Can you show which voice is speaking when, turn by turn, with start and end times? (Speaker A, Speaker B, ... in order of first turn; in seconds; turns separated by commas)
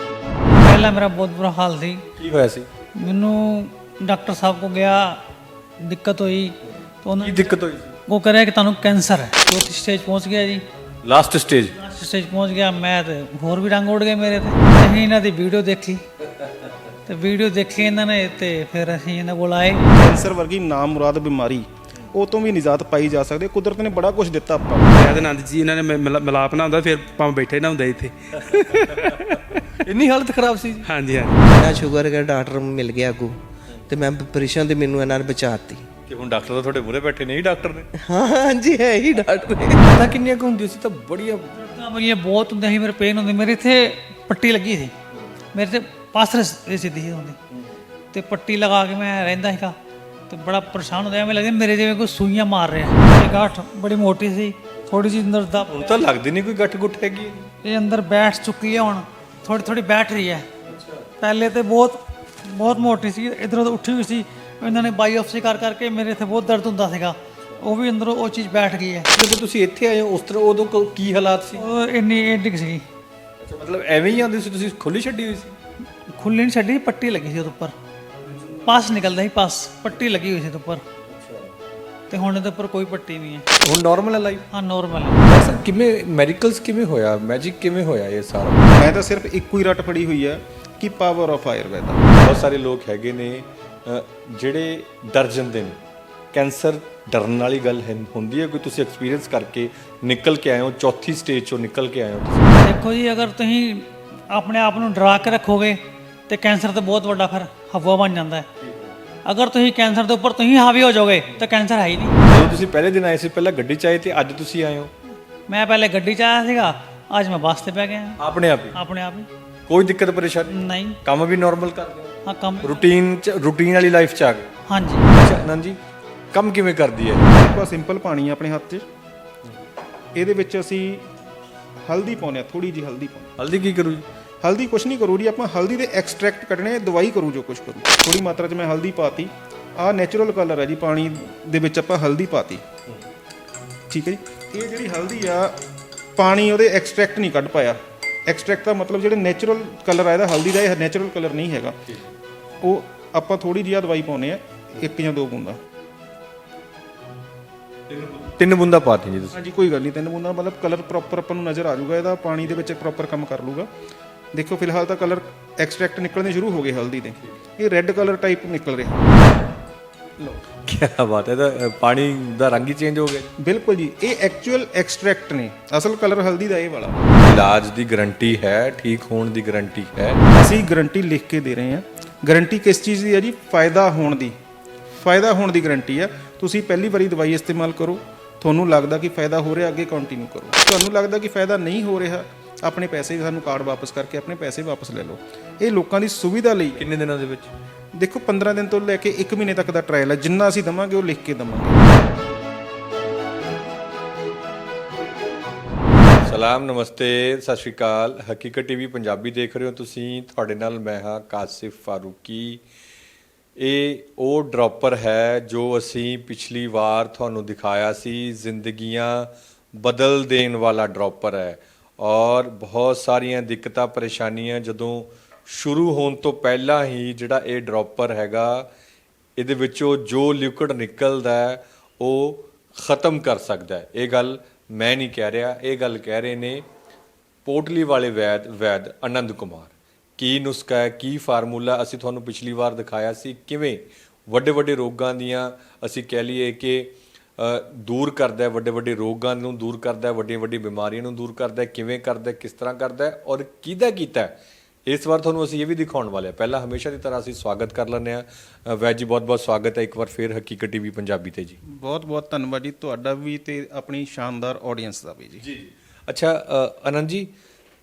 Speaker A: 0.6-2.0, Speaker B: 2.2-2.7, Speaker A: 3.0-5.2, Speaker A: 5.8-7.5, Speaker B: 6.6-8.0, Speaker A: 8.1-10.6, Speaker B: 11.0-11.8, Speaker A: 11.8-16.0, Speaker B: 16.3-16.9, Speaker A: 17.1-19.8, Speaker C: 19.9-25.0, Speaker D: 24.9-29.5, Speaker B: 28.4-30.9, Speaker D: 30.9-31.5, Speaker E: 31.4-33.3, Speaker E: 33.9-35.9, Speaker B: 36.1-37.9, Speaker E: 38.0-39.9, Speaker B: 39.8-41.5, Speaker A: 41.5-44.9, Speaker B: 45.1-45.4, Speaker A: 45.5-47.4, Speaker B: 47.5-47.8, Speaker A: 48.1-49.8, Speaker A: 50.3-56.0, Speaker B: 54.7-55.1, Speaker B: 55.6-57.5, Speaker A: 57.6-60.5, Speaker B: 60.6-61.1, Speaker A: 61.2-69.1, Speaker B: 69.1-71.6, Speaker A: 71.6-72.8, Speaker B: 73.4-75.6, Speaker A: 76.2-77.7, Speaker A: 78.6-80.8, Speaker B: 81.0-81.5, Speaker A: 82.1-83.5, Speaker B: 83.5-84.5, Speaker A: 84.5-85.2, Speaker B: 85.2-88.7, Speaker C: 88.7-92.1, Speaker B: 92.2-95.8, Speaker B: 96.3-102.7, Speaker A: 102.6-108.5, Speaker B: 108.6-108.9, Speaker A: 109.2-112.2, Speaker B: 112.2-114.9, Speaker A: 115.5-118.2, Speaker B: 118.2-118.8, Speaker A: 118.7-119.3, Speaker B: 119.7-124.5, Speaker A: 120.5-121.0, Speaker A: 122.2-122.9, Speaker A: 124.7-125.0, Speaker B: 125.1-125.8, Speaker B: 126.3-127.3, Speaker C: 127.3-128.8, Speaker C: 130.1-131.1, Speaker C: 131.8-133.3, Speaker B: 133.4-134.0, Speaker C: 134.4-142.6, Speaker C: 143.9-145.6, Speaker C: 146.2-151.8, Speaker B: 151.8-152.1, Speaker C: 152.6-155.6, Speaker B: 157.9-159.4, Speaker C: 159.3-163.7, Speaker C: 164.3-169.3, Speaker B: 170.3-173.3, Speaker C: 173.4-177.2, Speaker B: 177.2-180.2, Speaker C: 180.3-184.3, Speaker C: 184.9-196.8, Speaker B: 196.8-197.5, Speaker C: 198.0-201.9, Speaker B: 206.2-212.6, Speaker B: 213.6-228.7, Speaker B: 229.4-236.7, Speaker B: 237.4-261.6, Speaker C: 261.6-265.4, Speaker B: 265.4-267.3